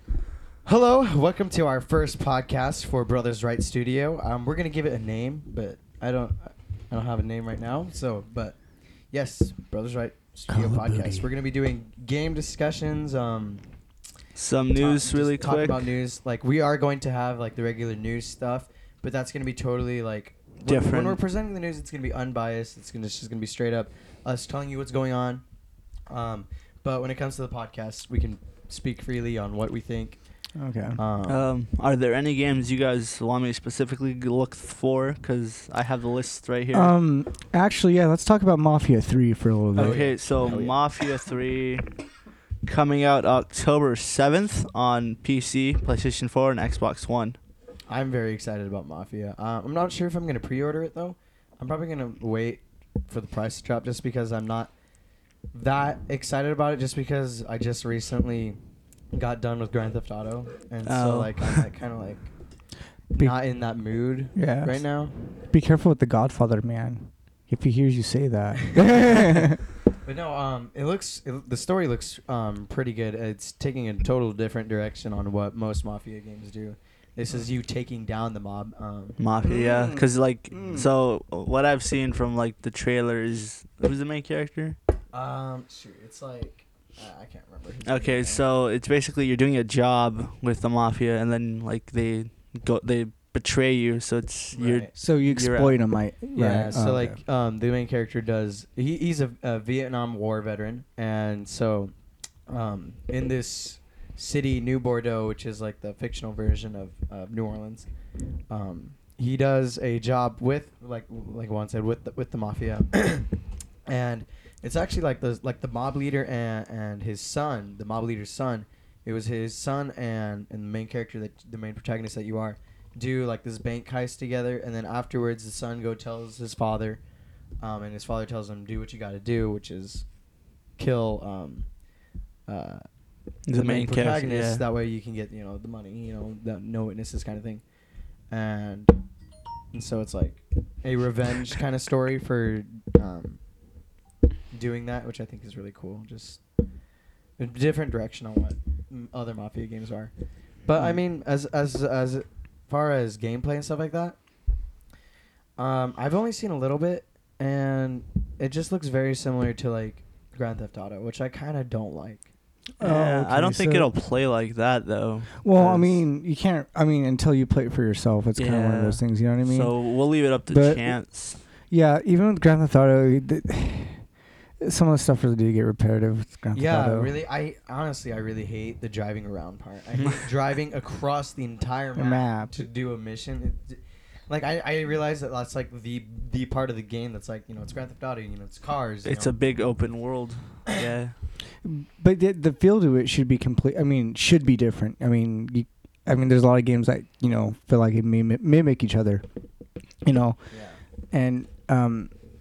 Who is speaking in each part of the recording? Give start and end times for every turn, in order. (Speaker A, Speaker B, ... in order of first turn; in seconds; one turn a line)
Speaker A: 0.6-8.6
Speaker A: 9.1-13.6
Speaker B: 10.5-11.3
Speaker C: 14.3-15.9
Speaker A: 14.7-25.4
Speaker C: 20.7-21.2
Speaker A: 26.1-30.2
Speaker B: 30.6-31.0
Speaker A: 30.9-31.4
Speaker C: 31.3-36.9
Speaker B: 36.7-40.5
Speaker A: 39.8-40.8
Speaker C: 39.8-41.9
Speaker C: 42.6-47.4
Speaker A: 47.9-54.7
Speaker A: 55.5-58.6
Speaker A: 59.1-62.3
Speaker C: 60.8-61.7
Speaker A: 63.1-65.1
Speaker B: 64.3-64.8
Speaker B: 65.4-69.6
Speaker A: 68.6-69.5
Speaker A: 70.0-79.2
Speaker C: 79.2-84.8
Speaker B: 79.4-80.9
Speaker A: 85.1-88.4
Speaker C: 87.8-95.8
Speaker A: 94.5-94.9
Speaker B: 95.0-97.2
Speaker A: 96.3-101.9
Speaker A: 102.5-107.9
Speaker A: 108.5-113.3
Speaker A: 113.9-127.0
Speaker A: 127.6-130.1
Speaker A: 130.8-131.7
Speaker A: 132.5-132.8
Speaker C: 133.5-134.6
Speaker A: 133.5-137.6
Speaker A: 138.3-138.9
Speaker A: 139.7-143.4
Speaker A: 144.5-146.4
Speaker A: 147.4-150.1
Speaker A: 150.7-154.2
Speaker A: 155.6-162.2
Speaker B: 162.8-163.9
Speaker C: 162.8-166.0
Speaker B: 165.4-169.7
Speaker C: 168.4-171.4
Speaker B: 170.5-170.9
Speaker B: 171.7-174.0
Speaker B: 174.6-177.1
Speaker A: 176.5-189.3
Speaker B: 181.9-182.6
Speaker C: 189.0-191.1
Speaker B: 191.6-199.2
Speaker B: 200.0-200.4
Speaker A: 200.5-200.8
Speaker B: 201.1-202.1